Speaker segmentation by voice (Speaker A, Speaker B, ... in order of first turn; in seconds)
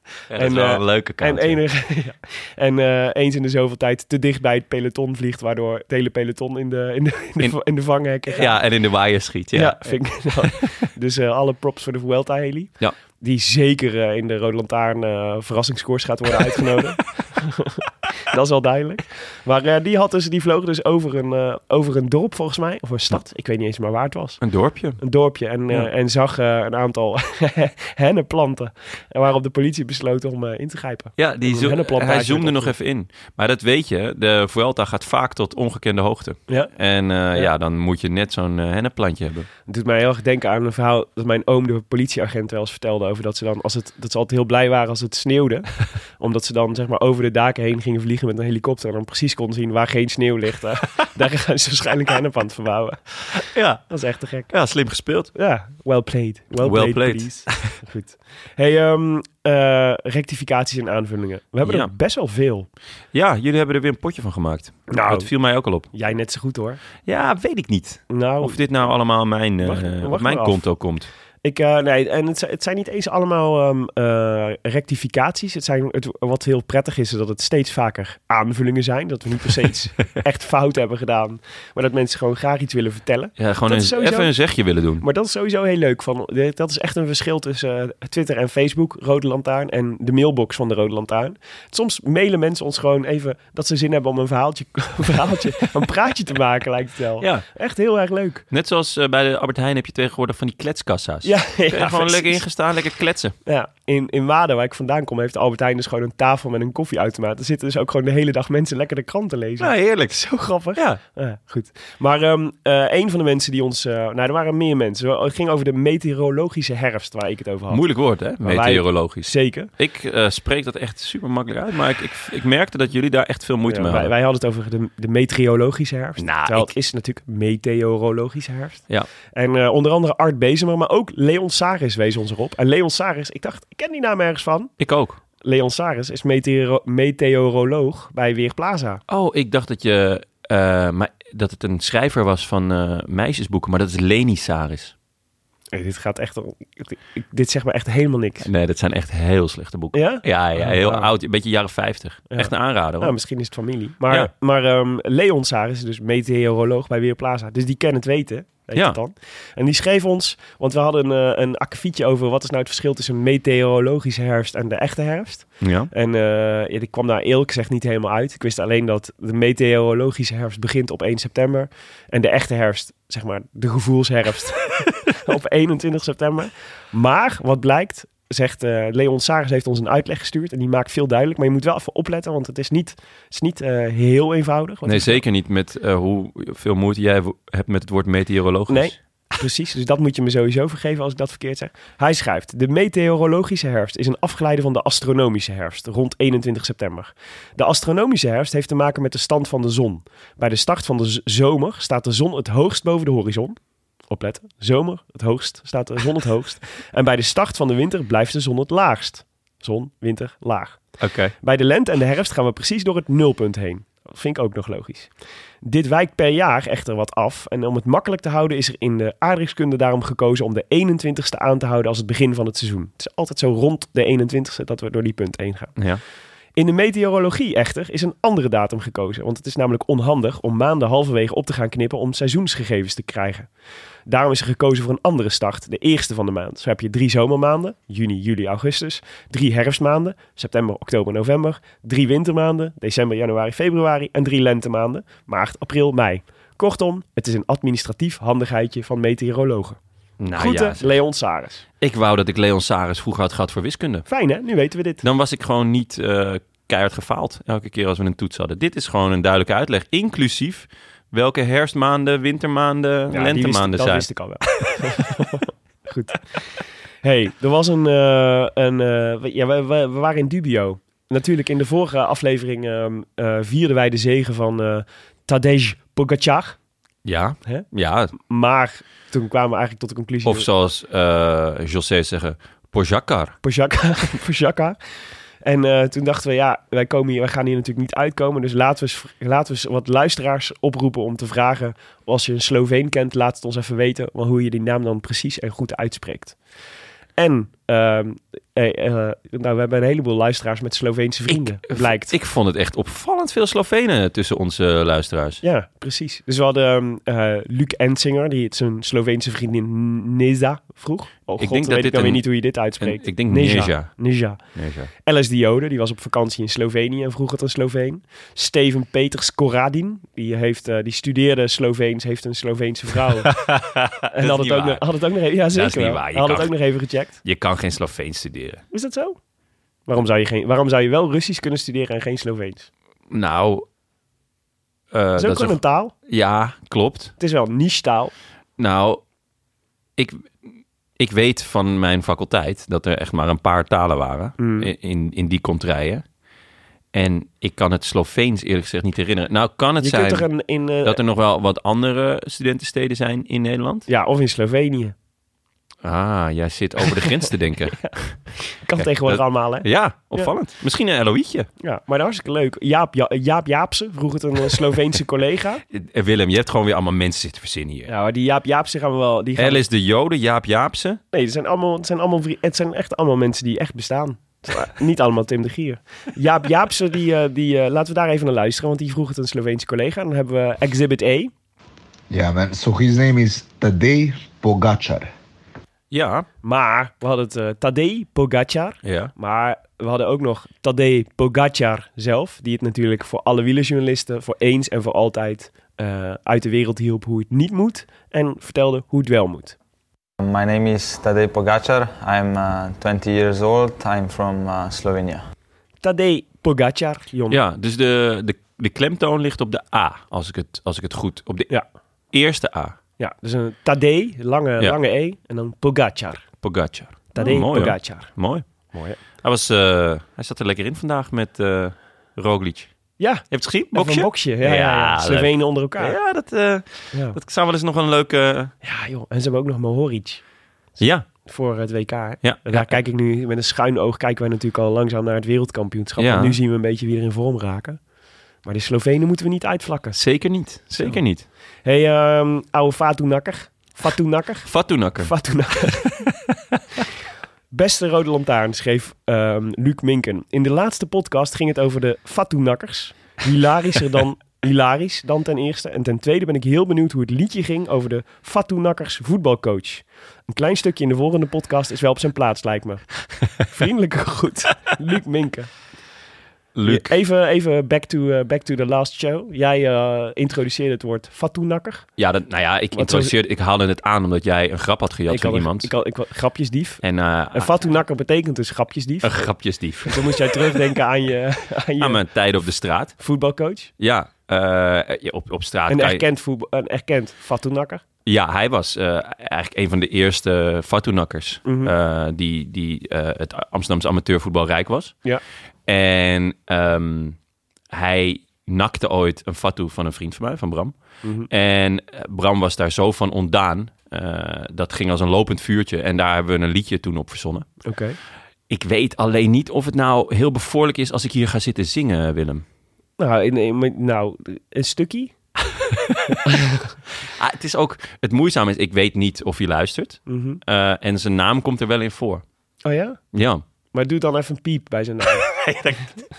Speaker A: 0.3-1.6, 8.3-10.5, 24.4-25.0, 31.2-39.5, 53.5-53.8, 54.5-55.3, 56.6-57.7, 61.6-61.9, 63.1-65.9, 67.0-71.1, 83.4-85.0, 97.2-97.4, 98.5-103.3, 109.6-110.2, 117.7-124.1, 126.2-126.7, 134.8-135.2, 139.1-144.9, 148.4-153.2, 165.6-165.9, 184.8-188.9, 211.0-211.3, 250.2-250.9, 251.8-254.1, 255.0-264.1, 277.0-278.1, 280.2-283.4, 301.3-305.4, 311.4-314.9, 323.3-324.8, 325.5-326.5, 327.2-328.6, 333.1-333.6, 334.9-337.1, 338.6-339.0, 340.0-340.5, 341.0-346.0, 346.9-350.2, 350.8-353.9, 355.8-358.2, 358.8-361.5, 365.7-367.9, 369.4-371.0, 385.9-386.3, 388.8-389.1, 407.3-411.5, 412.1-412.8, 416.4-418.4, 419.2-422.7, 423.2-428.5, 430.8-431.1, 432.2-432.7, 436.0-436.4, 439.9-441.2, 444.5-445.1, 466.5-466.9, 472.0-475.7, 476.8-477.7, 479.0-480.6, 481.8-483.0, 483.8-486.0, 488.1-495.0, 495.7-497.2, 497.7-500.7, 501.3-507.6, 508.5-512.4, 515.9-516.2, 517.1-522.2, 523.1-523.4, 525.2-525.9
Speaker B: 0.3-8.6, 9.5-24.4, 25.0-32.7, 39.7-53.2, 53.9-54.5, 55.3-62.7, 64.9-65.3, 65.9-66.8, 68.1-68.6, 69.6-70.6, 71.4-84.3, 85.0-98.4, 101.2-102.4, 103.5-117.8, 118.4-119.7, 123.7-134.7, 135.4-139.0, 145.7-148.5, 149.9-151.1, 152.3-185.2, 188.7-203.6, 204.1-210.8, 211.4-215.1, 215.6-225.8, 226.6-233.5, 234.1-249.8, 250.3-251.6, 254.1-255.0, 263.1-266.4, 267.0-276.6, 278.2-280.5, 283.4-284.8, 285.4-296.4, 297.2-302.1, 305.4-314.4, 315.0-323.3, 324.1-327.2, 328.7-329.2, 329.9-332.7, 335.2-335.9, 337.2-338.1, 344.4-344.7, 349.8-351.0, 353.9-354.9, 357.8-360.3, 361.6-365.6, 367.9-369.6, 371.1-381.3, 386.4-399.6, 405.8-407.4, 413.0-416.2, 417.1-418.1, 418.7-419.0, 423.0-426.0, 426.9-427.2, 428.6-430.2, 431.1-437.8, 438.4-440.0, 441.6-446.0, 447.5-465.5, 466.7-471.9, 472.7-473.1, 475.1-479.3, 479.9-482.0, 483.0-483.7, 485.7-487.8, 491.4-491.7, 501.0-501.3, 507.6-508.0, 513.0-515.1, 520.1-520.4, 522.6-523.0, 523.7-525.2
Speaker C: 382.1-385.1
Speaker D: 400.2-405.2